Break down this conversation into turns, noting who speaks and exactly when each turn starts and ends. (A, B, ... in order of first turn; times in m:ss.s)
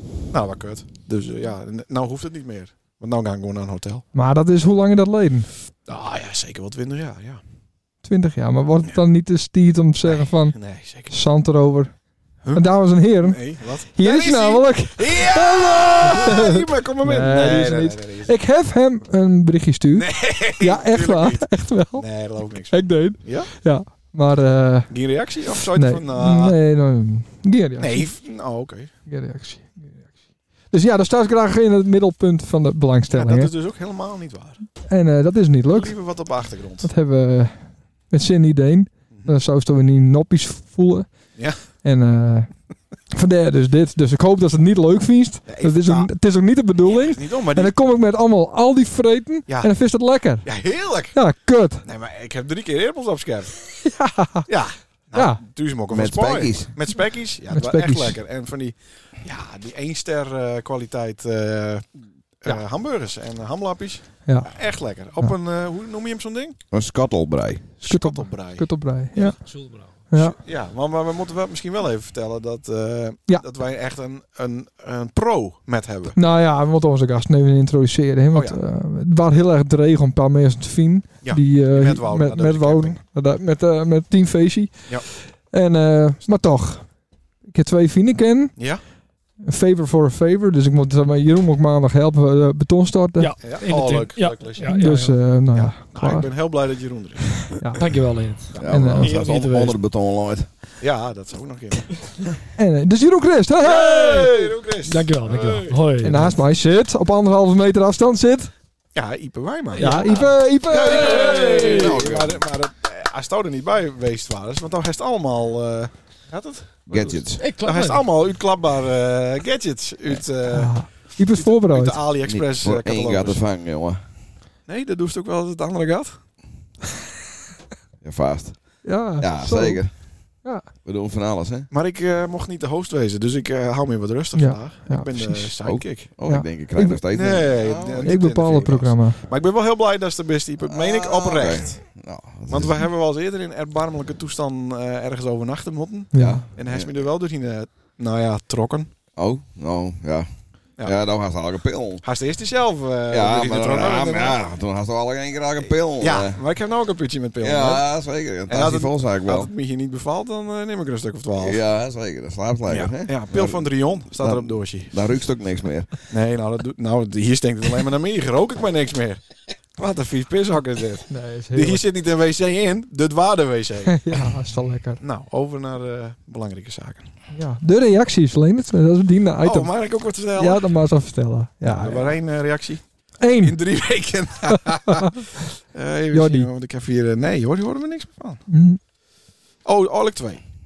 0:00.3-0:04.0 A
0:04.1-0:05.5 B
0:05.9-0:07.4 A
0:08.0-0:11.9 B
0:10.0-0:11.2 A
0:12.4-0:18.3 A
0:12.5-0:25.0 B
0:20.0-0:23.5 A
0:24.9-0:26.6 A
0:25.6-0:28.1 B
0:27.8-0:28.9 A
0:29.1-0:30.1 B
0:30.7-0:33.5 B
0:33.1-0:34.7 A
0:34.9-0:36.0 B
0:35.7-0:36.9 A
0:36.8-0:42.5 B
0:39.1-0:39.4 A
0:43.1-0:51.8 B
0:45.5-0:46.1 A
0:46.8-0:47.7 A
0:49.5-0:51.2 A
0:51.8-0:53.6 A
0:53.8-0:54.5 B
0:54.5-1:01.9 A
0:55.1-0:55.4 B
0:55.9-0:56.7 C
0:57.5-0:58.2 B
1:02.4-1:06.6 A
1:04.3-1:04.5 B
1:06.7-1:07.7 C
1:07.8-1:09.4 B
1:07.8-1:09.3 A
1:09.4-1:09.9 D
1:10.1-1:10.4 B
1:10.1-1:16.2 A
1:16.2-1:27.0 B
1:18.3-1:18.6 A
1:21.2-1:23.0 A
1:27.5-1:28.6 B
1:28.6-1:28.8 A
1:29.4-1:33.3 B
1:33.2-1:35.3 D
1:33.4-1:37.7 A
1:34.7-1:36.3 B
1:37.5-1:37.8 B
1:37.8-1:38.6 D
1:38.5-1:39.7 A
1:38.6-1:39.7 B
1:38.6-1:40.5 C
1:40.8-1:41.9 A
1:42.6-1:44.3 B
1:43.6-1:46.2 A
1:44.0-1:46.3 D
1:46.0-1:48.5 B
1:49.0-1:50.1 A
1:49.7-1:52.1 D
1:49.8-1:51.7 B
1:50.7-2:03.4 A
1:51.0-1:52.4 C
1:56.9-1:57.4 C
1:57.4-1:58.1 D
2:00.5-2:02.0 B
2:02.2-2:04.0 C
2:04.7-2:06.2 A
2:08.0-2:09.9 C
2:08.8-2:09.8 B
2:10.4-2:10.7 B
2:10.8-2:11.7 C
2:11.7-2:16.1 A
2:14.4-2:15.5 B
2:15.6-2:18.2 C
2:16.2-2:17.3 B
2:17.1-2:21.8 A
2:18.0-2:19.2 B
2:20.6-2:22.8 C
2:22.5-2:28.9 A
2:26.1-2:26.5 B
2:26.2-2:26.9 C
2:29.2-2:32.0 C
2:32.0-2:34.4 A
2:33.1-2:36.4 C
2:36.0-2:37.9 A
2:37.4-2:39.5 C
2:38.5-2:41.6 A
2:41.4-2:45.9 C
2:42.7-2:45.1 A
2:46.1-2:49.2 A
2:49.8-2:54.2 A
2:51.1-2:51.8 B
2:53.9-2:55.0 B
2:55.0-2:57.1 A
2:57.3-2:59.7 B
2:59.4-3:00.7 A
3:00.4-3:02.1 B
3:01.6-3:02.8 A
3:03.2-3:03.6 B
3:03.4-3:05.2 A
3:04.9-3:05.1 B
3:05.7-3:08.4 A
3:06.1-3:06.5 B
3:08.5-3:08.8 B
3:09.6-3:10.4 A